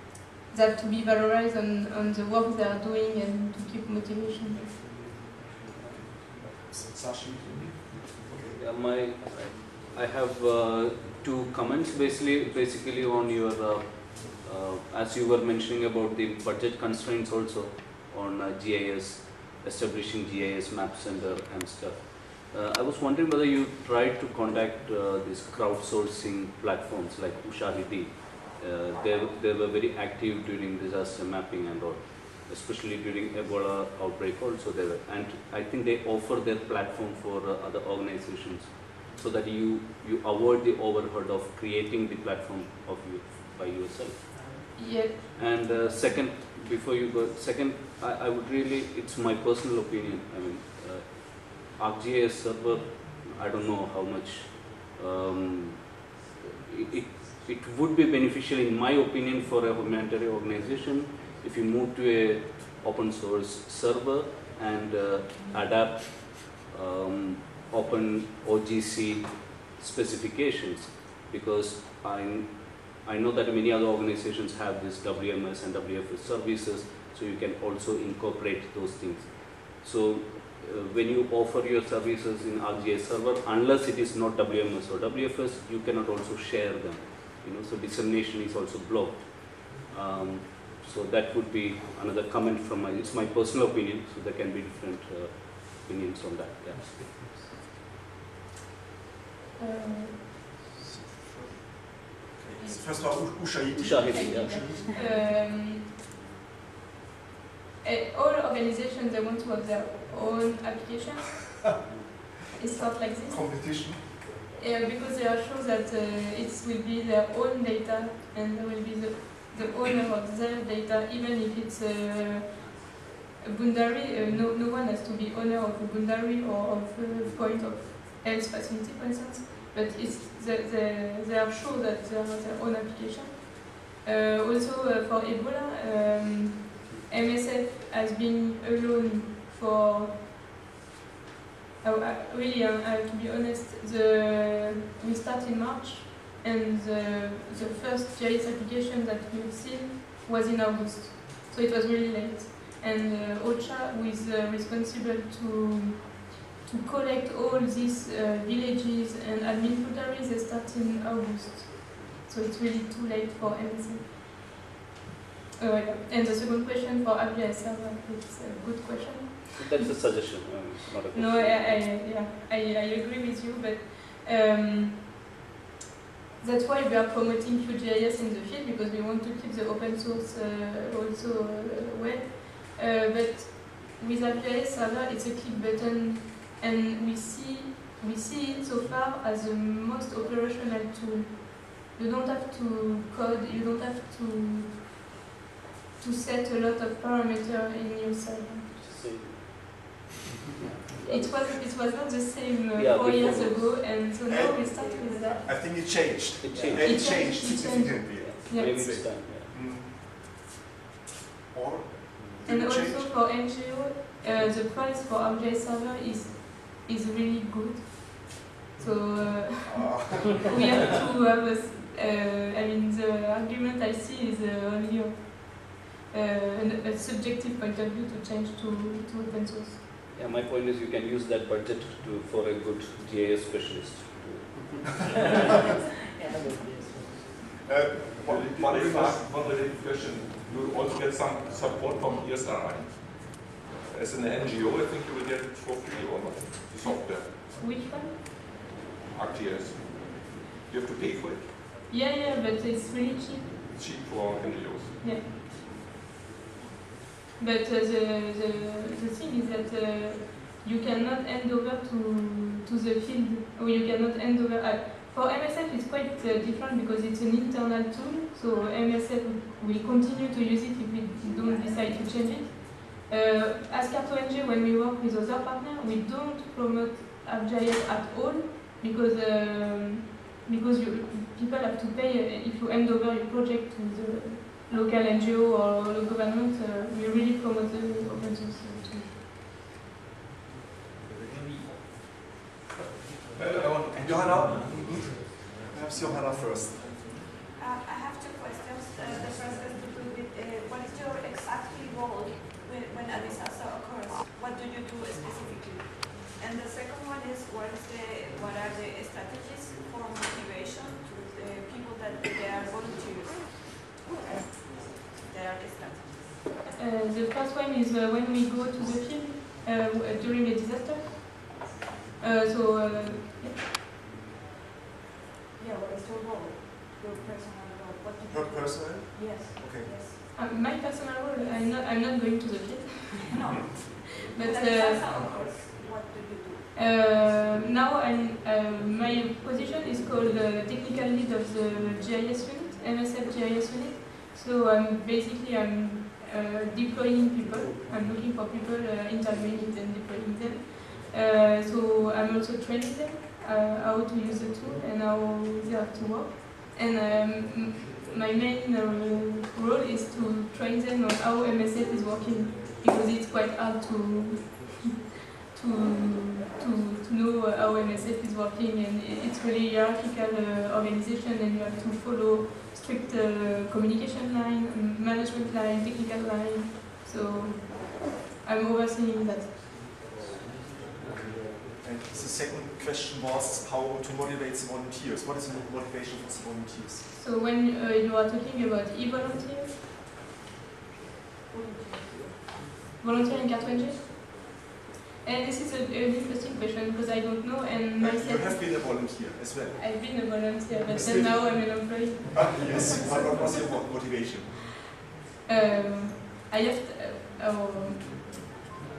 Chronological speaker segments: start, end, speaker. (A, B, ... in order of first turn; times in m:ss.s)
0:00.5-0:04.7 A
0:05.7-0:08.6 B
0:08.6-0:44.3 C
0:44.7-0:45.1 A
0:45.3-1:37.1 C
1:39.6-1:40.3 A
1:40.8-1:44.9 B
1:42.6-1:43.6 A
1:43.7-1:44.7 C
1:44.1-1:45.8 A
1:47.8-1:51.6 A
1:52.5-1:53.7 A
1:53.0-1:54.2 B
1:54.6-2:20.2 A
2:21.8-2:44.1 A
2:45.6-2:49.9 A
2:49.5-2:51.9 C
2:51.1-2:55.1 A
2:56.4-3:14.8 A
3:16.0-3:18.7 A
3:18.7-3:19.5 C
3:21.0-3:25.4 A
3:21.0-3:21.7 C
3:22.7-3:24.0 C
3:24.2-3:24.7 B
3:24.3-3:25.6 D
3:25.4-3:30.4 B
3:26.4-3:27.3 C
3:26.7-3:29.0 A
3:28.1-3:29.5 C
3:31.5-3:33.1 B
3:32.4-3:49.8 A
3:39.6-3:40.8 B
3:50.1-3:54.8 C
3:57.6-3:59.3 B
3:58.2-4:07.4 E
4:06.8-4:08.2 A
4:09.1-4:11.6 E
4:11.9-4:13.9 A
4:13.7-4:15.0 E
4:14.5-4:15.2 A
4:17.4-4:49.1 A
4:31.2-4:32.6 D
4:51.0-4:51.7 B
4:53.4-4:54.1 E
4:53.5-4:57.2 B
4:57.6-5:16.2 D
5:16.6-5:21.5 A
5:22.2-5:23.6 A
5:25.6-5:30.2 D
5:28.3-5:29.9 B
5:30.3-5:33.5 A
5:33.3-5:36.7 D
5:34.2-5:35.3 A
5:36.7-6:05.0 A
6:05.5-6:20.2 A
6:21.0-6:27.0 B
6:27.1-6:29.8 A
6:31.5-6:32.4 D
6:33.0-6:34.6 A
6:35.2-6:38.8 A
6:38.0-6:39.8 B
6:39.7-6:43.5 A
6:40.9-6:44.5 B
6:45.4-6:48.5 A